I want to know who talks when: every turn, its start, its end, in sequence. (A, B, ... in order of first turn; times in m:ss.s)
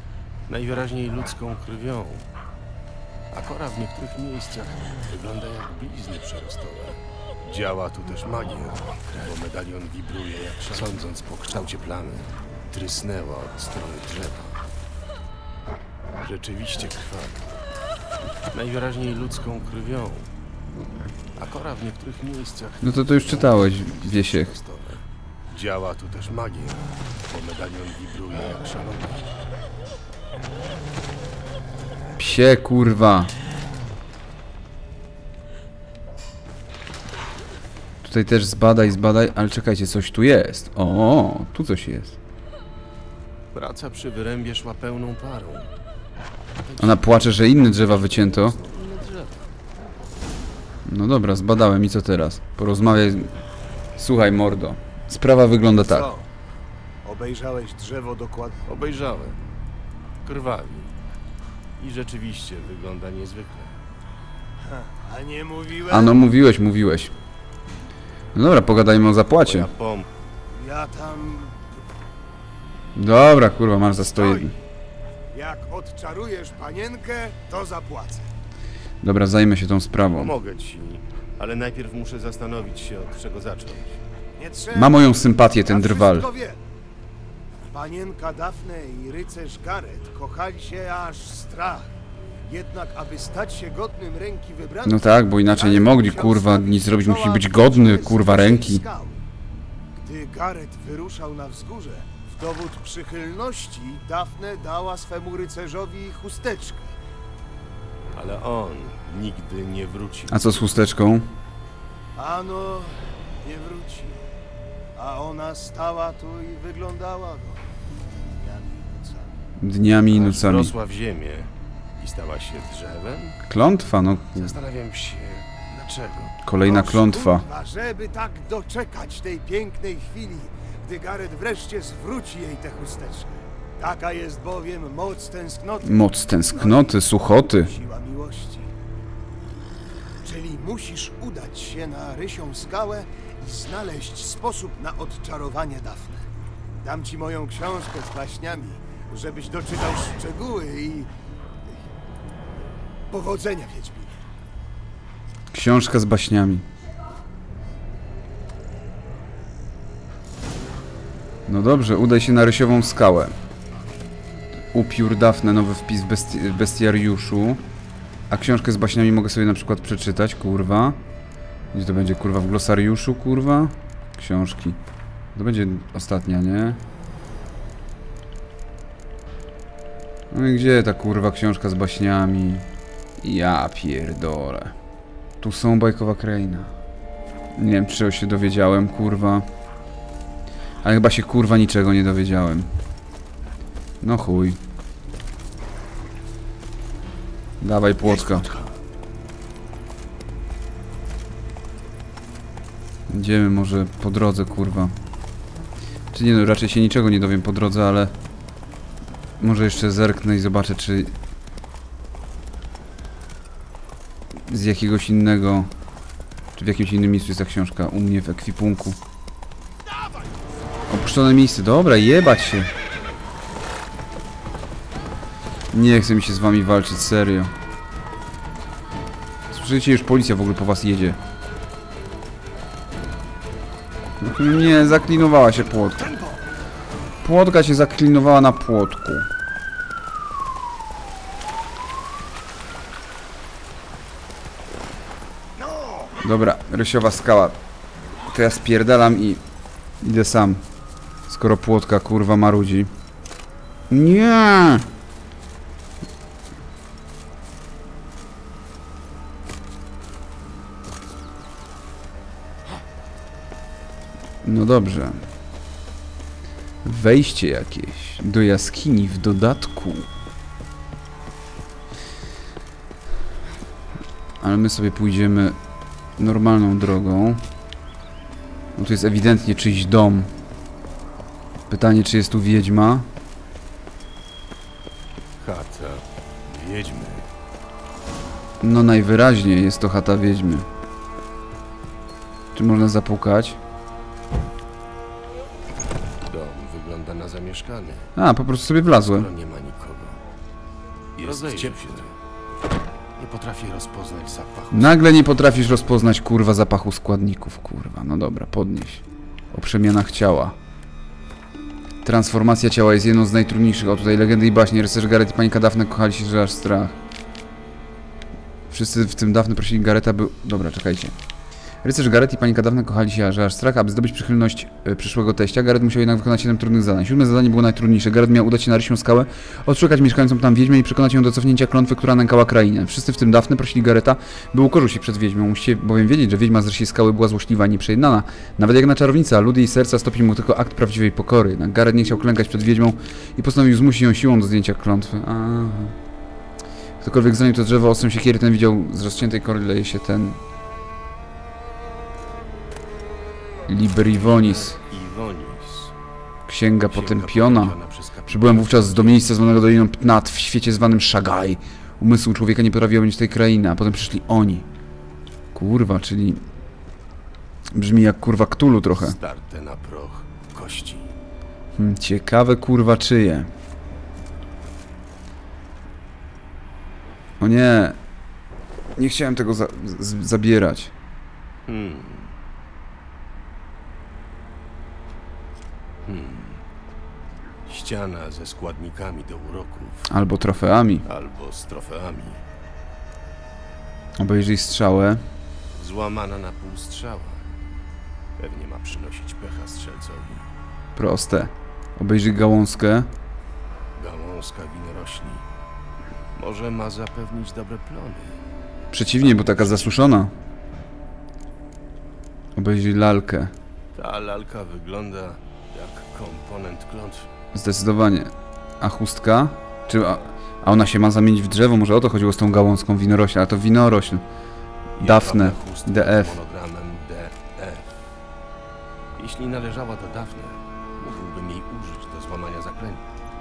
0:00.5-0:02.2 A
0:03.3-0:14.6 A
0:16.2-0:17.4 A
0:18.5-0:20.3 A
0:21.4-0:29.3 A
0:22.8-0:24.6 B
0:32.2-0:33.3 B
0:38.0-0:42.2 B
0:43.5-0:45.7 A
0:46.6-0:49.4 A
0:46.8-0:48.6 B
0:50.9-0:53.3 B
0:54.0-0:56.1 B
0:55.8-0:56.3 C
0:57.0-0:58.6 C
0:58.7-0:59.4 A
1:00.2-1:00.9 A
1:01.8-1:03.7 A
1:04.6-1:06.2 C
1:05.9-1:07.1 B
1:08.4-1:09.7 B
1:09.4-1:10.1 A
1:10.5-1:11.6 C
1:13.0-1:14.6 B
1:14.2-1:14.5 C
1:15.3-1:18.3 C
1:19.0-1:20.3 B
1:20.1-1:23.9 A
1:24.4-1:26.6 C
1:24.7-1:26.3 B
1:27.7-1:31.9 C
1:32.5-1:39.2 C
1:34.8-1:38.8 B
1:40.0-1:46.9 C
1:48.2-1:50.5 A
1:50.3-1:51.3 B
1:52.2-1:54.3 C
1:55.0-1:57.6 C
1:58.4-1:59.4 C
1:59.6-2:00.7 B
2:00.1-2:03.4 A
2:03.5-2:04.6 B
2:04.3-2:06.4 A
2:06.4-2:07.5 B
2:06.6-2:17.1 C
2:15.8-2:17.7 B
2:17.6-2:18.7 C
2:20.2-2:26.2 C
2:26.8-2:31.1 C
2:33.1-2:34.2 C
2:35.5-2:36.7 B
2:41.5-2:43.3 B
2:44.7-2:47.6 B
2:48.3-2:51.0 B
2:51.7-2:54.8 B
2:55.4-2:56.8 B
3:00.3-3:02.7 B
3:03.2-3:04.8 B
3:05.4-3:06.7 B
3:07.6-3:09.5 B
3:10.8-3:12.7 B
3:14.0-3:14.6 B
3:17.6-3:18.5 B
3:23.1-3:24.9 B
3:26.1-3:28.1 B
3:29.4-3:31.1 B
3:34.5-3:35.7 B
3:36.6-3:39.0 B
3:40.9-3:42.7 B
3:45.7-3:47.5 B
3:49.5-3:51.2 B
3:54.2-3:56.1 B
3:57.2-3:59.3 B
4:05.7-4:06.1 C
4:06.2-4:07.6 B
4:08.3-4:09.4 B
4:10.0-4:10.6 B
4:11.3-4:12.9 B
4:13.9-4:14.9 B
4:24.4-4:25.2 B
4:26.8-4:30.1 B
4:34.4-4:35.6 B
4:36.2-4:37.4 B
4:38.8-4:40.3 B
4:41.7-4:43.1 B
4:45.4-4:47.3 A
4:48.6-4:50.7 B
4:52.6-4:53.6 B
4:56.2-4:58.1 A
4:58.2-4:59.3 B
4:59.1-5:00.2 A
5:01.2-5:02.1 A
5:01.2-5:01.8 B
5:03.2-5:04.9 A
5:04.7-5:10.6 B
5:12.0-5:17.0 B
5:18.7-5:21.2 B
5:21.8-5:46.0 B
5:47.0-5:50.4 B
5:53.7-5:54.8 B
5:54.2-5:55.9 A
5:56.5-5:57.8 B
5:56.9-5:59.4 A
5:58.3-6:04.7 B
6:05.5-6:06.4 B
6:07.7-6:09.2 B
6:09.0-6:11.1 A
6:11.8-6:13.5 B
6:17.4-6:18.0 B
6:19.0-6:20.9 B
6:21.7-6:22.3 A
6:26.1-6:26.6 A
6:27.7-6:30.1 A
6:30.1-6:31.0 B
6:31.0-6:32.4 A
6:34.2-6:35.2 B
6:35.8-6:37.5 A
6:38.4-6:40.5 A
6:41.0-6:43.1 B
6:44.0-6:45.4 A
6:46.4-6:48.4 A
6:48.9-6:50.3 B
6:49.2-6:50.0 A
6:52.6-6:53.5 B
6:54.0-6:57.3 A
6:57.5-7:04.2 B
7:05.0-7:07.8 A
7:05.0-7:06.4 B
7:09.2-7:13.1 A